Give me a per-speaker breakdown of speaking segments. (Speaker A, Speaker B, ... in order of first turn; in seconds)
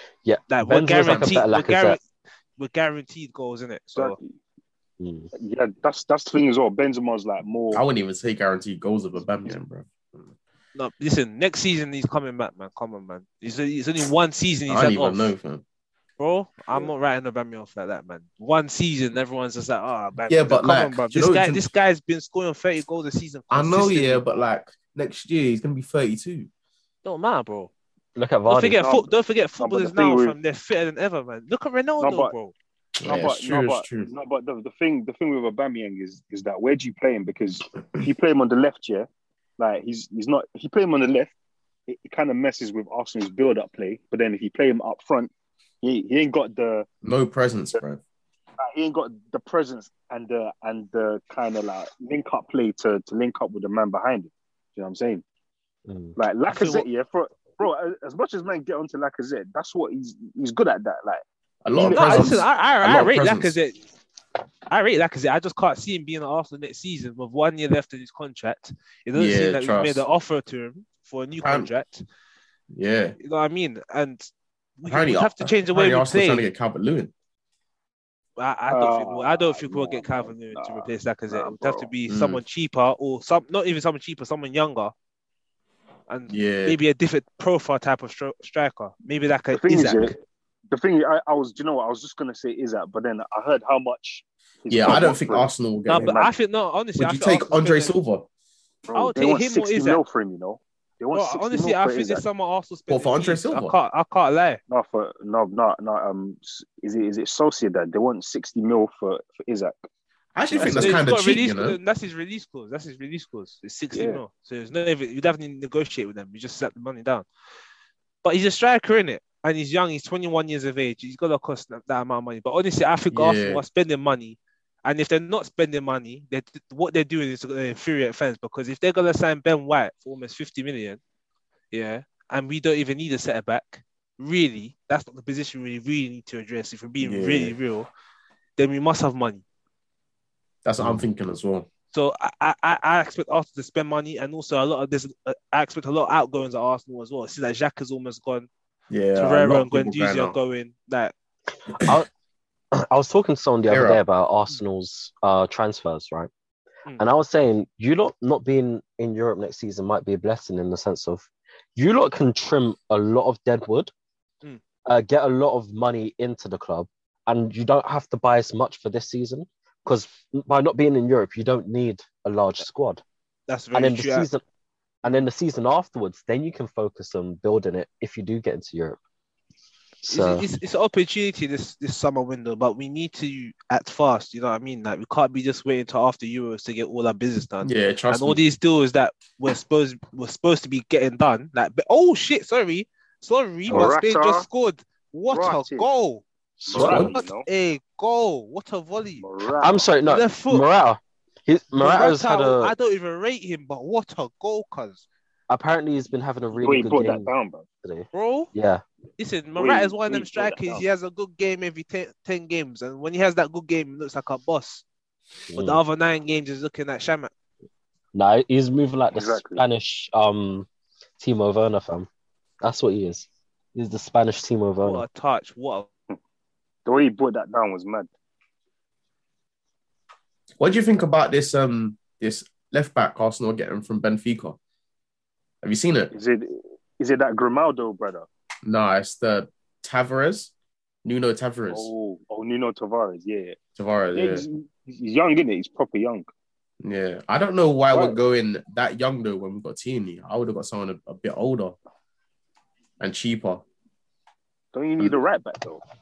Speaker A: 0.2-2.0, 5.0-5.3, 28.2-28.8, 55.9-56.2, 151.8-152.1, 152.7-156.3, 157.0-163.9, 164.9-173.0, 173.7-174.4, 175.0-179.0, 180.0-180.5, 196.6-197.1, 199.6-202.7, 205.5-207.3, 207.8-208.8, 215.5-215.8, 218.1-220.7, 221.2-222.1, 222.6-225.0
Speaker B: 0.5-2.0, 2.6-4.2, 10.8-15.3, 16.2-24.2, 27.1-27.7, 28.5-32.5, 56.5-56.9, 61.9-63.8, 64.7-72.0, 73.2-76.5, 78.4-84.9, 86.1-90.1, 95.9-97.9, 98.9-100.0, 101.1-104.6, 110.6-117.3, 118.2-131.0, 131.7-137.9, 138.6-139.4, 141.9-148.5, 149.2-151.1, 173.5-174.3, 180.1-196.2, 196.7-199.2, 200.1-200.7, 201.8-205.0, 208.1-208.5, 209.2-214.8, 215.6-217.3, 224.8-225.9
Speaker C: 4.0-4.3, 5.4-7.8, 28.8-30.4, 32.0-32.3, 33.0-41.3, 41.9-45.3, 45.8-46.9, 48.6-55.2, 56.2-62.5, 78.7-81.9, 89.5-90.2, 90.7-96.3, 98.9-102.2, 104.7-109.8, 110.5-111.0, 113.9-114.2, 193.7-194.5, 195.3-195.9, 196.7-197.5, 199.2-199.9, 206.5-207.7, 209.6-210.8, 219.1-219.7, 226.8-228.1, 236.1-238.3, 241.7-243.6, 244.1-246.3, 254.7-255.8
Speaker D: 7.7-10.3, 14.7-15.6, 20.3-21.6, 23.5-26.5, 33.0-34.1, 47.0-48.0, 61.6-63.6, 69.1-70.0, 71.4-71.7, 72.7-73.2, 74.8-77.1, 82.1-82.4, 86.3-86.8, 94.7-96.2, 97.0-98.3, 102.9-103.8, 110.3-111.8, 123.1-123.6, 137.0-137.6, 140.7-141.7, 148.9-150.4, 153.7-154.0, 187.6-188.4, 196.8-197.2, 230.6-234.6, 235.6-236.1, 238.7-240.5, 241.0-241.9, 243.8-244.4, 246.8-251.8, 253.0-253.6